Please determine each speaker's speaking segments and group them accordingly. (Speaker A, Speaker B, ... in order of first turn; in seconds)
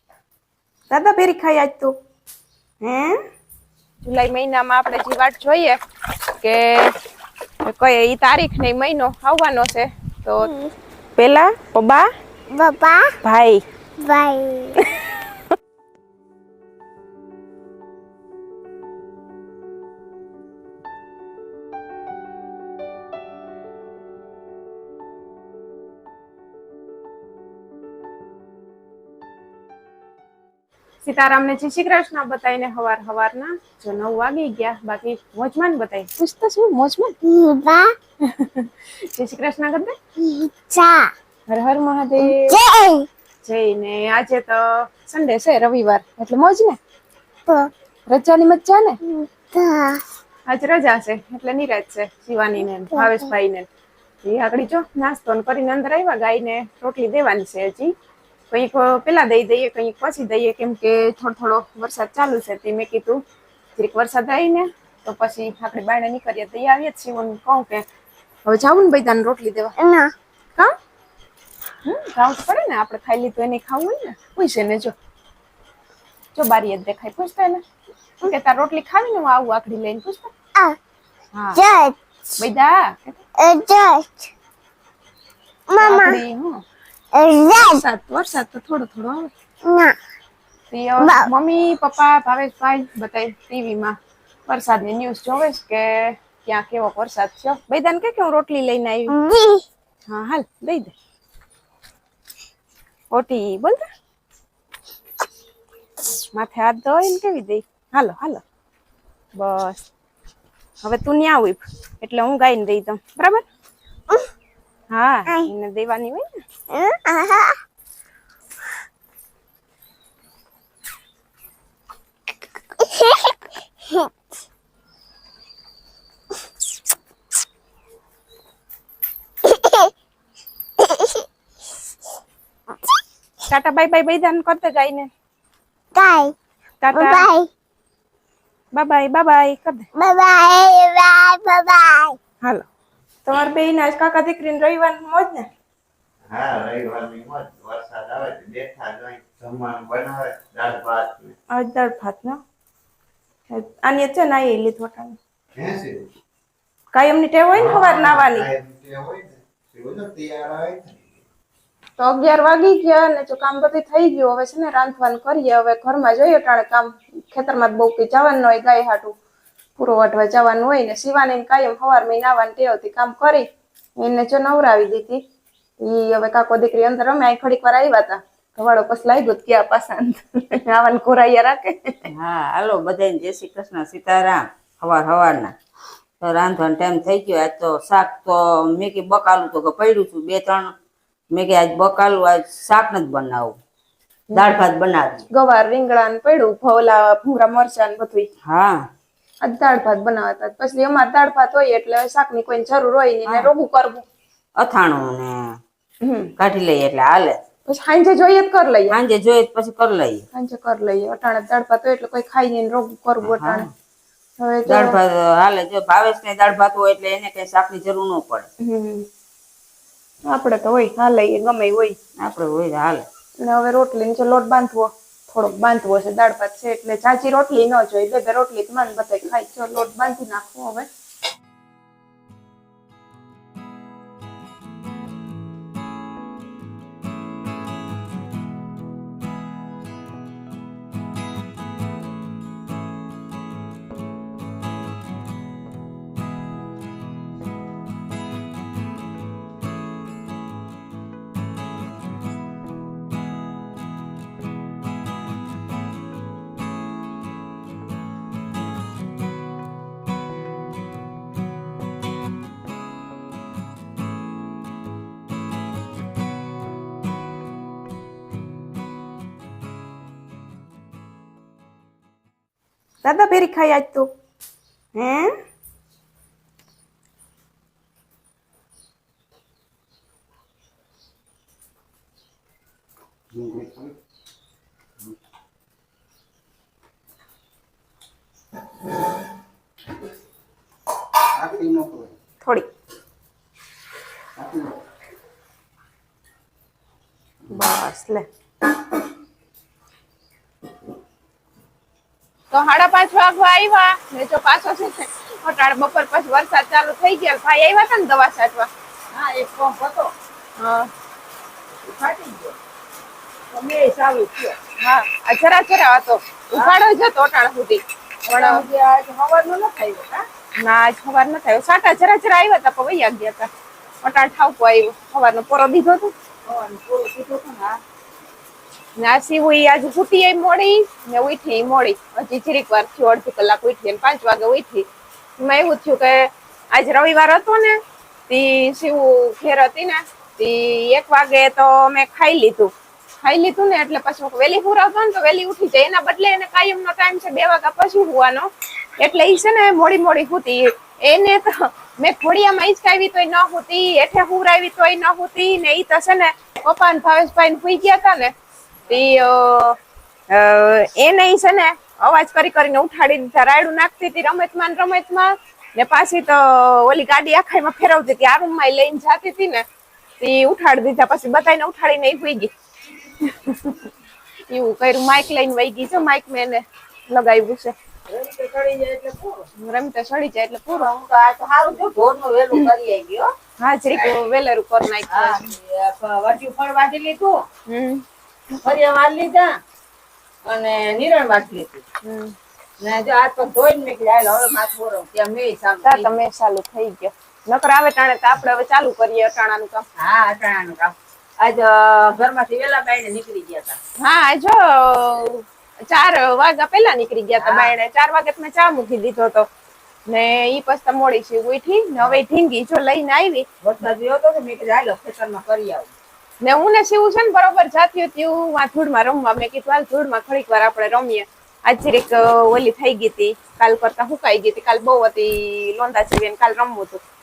Speaker A: 0.9-1.9, 2.8-3.2, 4.0-5.8, 6.4-6.9, 7.6-10.5, 11.2-12.1, 13.2-13.6, 14.7-15.0, 31.0-37.1, 38.2-40.0, 41.5-42.6, 43.4-46.8, 48.1-49.0, 50.5-53.7, 54.2-57.9, 58.5-63.2, 63.8-67.8, 68.5-69.8, 71.8-74.9, 76.3-77.6, 78.2-80.3, 81.3-81.6, 82.4-83.2, 85.8-86.6, 87.5-89.3, 90.7-94.0, 94.5-99.2, 100.1-100.9, 103.1-103.8, 106.3-108.4, 109.3-109.8, 110.8-113.4, 114.9-116.3, 133.5-135.1, 136.8-137.3, 138.7-139.9, 143.2-145.5, 151.5-152.4, 153.5-155.2, 156.9-158.5, 162.0-169.2, 169.8-175.2, 175.8-182.1, 194.3-194.6, 195.3-198.3, 199.4-204.0, 206.0-206.3, 207.7-209.0, 210.3-213.7, 214.4-215.0, 218.6-219.1, 220.3-222.0, 223.4-230.9, 273.0-274.1, 274.9-275.4, 292.4-292.7, 297.5-298.2, 302.5-308.7, 310.6-310.9, 314.8-318.6, 320.6-323.5, 324.0-326.1, 329.0-334.9, 335.4-358.3, 358.9-359.8, 360.3-369.6, 370.2-372.5, 373.2-373.9, 374.5-377.7, 379.6-380.9, 383.6-385.4, 387.7-388.0, 392.0-392.3, 395.8-399.8, 404.0-409.5, 410.1-413.4, 416.4-427.0
Speaker B: 10.4-10.7, 12.5-13.2, 14.0-14.9, 37.2-37.9, 40.2-41.1, 42.3-43.1, 49.0-50.0, 52.9-53.3, 69.8-70.1, 81.5-82.4, 83.4-84.3, 85.7-86.2, 87.1-87.8, 89.6-90.0, 91.0-91.3, 99.1-99.6, 116.7-117.6, 122.8-124.1, 129.4-129.9, 130.8-131.3, 135.9-136.3, 136.9-137.5, 139.9-142.2
Speaker C: 146.3-151.3, 155.6-156.1, 157.5-161.1, 283.3-283.9, 291.4-292.1, 294.4-294.7
Speaker D: 182.1-185.5, 186.2-190.7, 191.3-193.6, 194.3-195.2, 198.4-198.9, 203.2-203.5, 204.6-205.6, 206.4-207.4, 208.9-210.2, 213.2-213.7, 214.7-218.5, 222.2-223.1, 309.1-310.1, 311.8-312.5, 313.5-314.6, 318.2-320.2, 326.4-327.8, 378.1-379.4, 380.8-383.3, 385.1-387.4, 388.5-389.6, 390.4-391.8, 392.8-396.1, 400.0-403.8, 407.4-407.7, 413.6-415.9